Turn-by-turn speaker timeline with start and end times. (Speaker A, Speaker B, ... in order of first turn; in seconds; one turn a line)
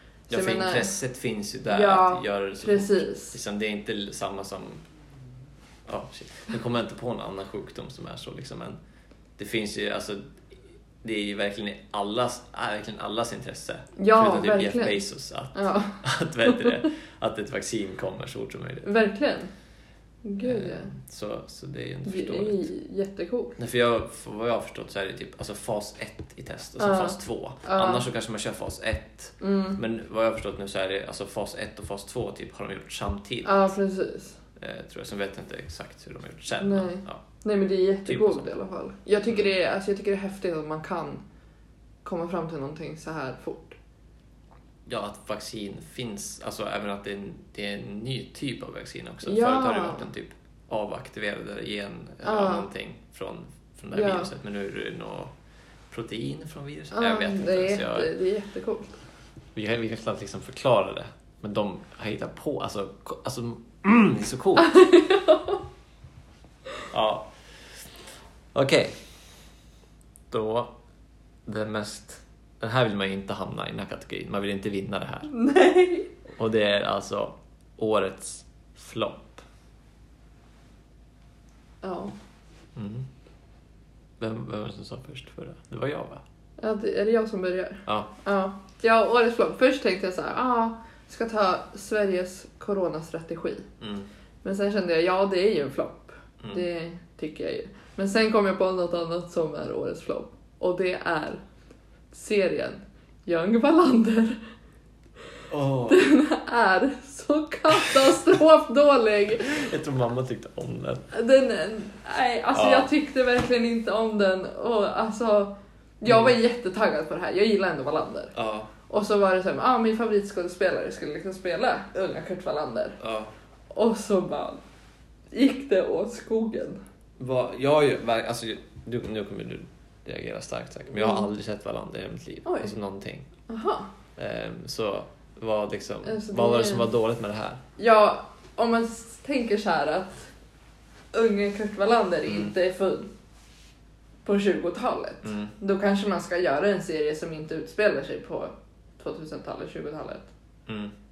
Speaker A: 0.3-4.8
Speaker B: 0.3-0.9
Speaker B: 1.6-3.4
Speaker A: 5.9-8.8
Speaker A: 9.4-18.9
Speaker B: 14.0-16.7
Speaker B: 18.8-19.5
Speaker B: 20.2-20.9
Speaker A: 20.4-22.7
Speaker B: 22.1-23.6
Speaker A: 23.6-33.7
Speaker B: 26.8-28.0
Speaker B: 29.4-29.8
Speaker B: 33.5-34.4
Speaker A: 34.6-37.2
Speaker B: 36.6-41.2
Speaker A: 38.0-38.5
Speaker B: 42.0-43.8
Speaker A: 44.9-55.3
Speaker B: 49.2-50.1
Speaker B: 52.2-52.7
Speaker B: 53.9-54.3
Speaker A: 55.9-58.1
Speaker B: 56.9-59.0
Speaker A: 59.5-64.7
Speaker B: 64.6-65.6
Speaker A: 66.9-69.5
Speaker A: 70.3-70.8
Speaker A: 71.5-75.3
Speaker B: 75.3-76.1
Speaker A: 76.3-79.4
Speaker B: 81.8-82.2
Speaker A: 82.8-83.1
Speaker A: 84.2-86.2
Speaker B: 86.6-93.7
Speaker A: 87.9-88.1
Speaker A: 93.8-94.1
Speaker B: 94.4-101.4
Speaker B: 102.1-104.4
Speaker A: 105.5-106.0
Speaker B: 105.9-109.7
Speaker A: 109.4-111.1
Speaker B: 111.1-118.3
Speaker A: 112.5-112.9
Speaker A: 116.1-116.3
Speaker A: 118.4-118.7
Speaker B: 118.9-123.0
Speaker A: 123.0-123.3
Speaker B: 123.7-124.6
Speaker B: 125.3-126.8
Speaker A: 127.2-133.3
Speaker B: 130.9-131.3
Speaker B: 132.4-132.7
Speaker B: 133.5-133.9
Speaker A: 134.2-137.6
Speaker B: 136.1-136.9
Speaker B: 137.8-140.3
Speaker B: 141.1-143.1
Speaker A: 142.3-142.5
Speaker B: 144.2-150.3
Speaker A: 145.2-145.6
Speaker A: 150.7-150.9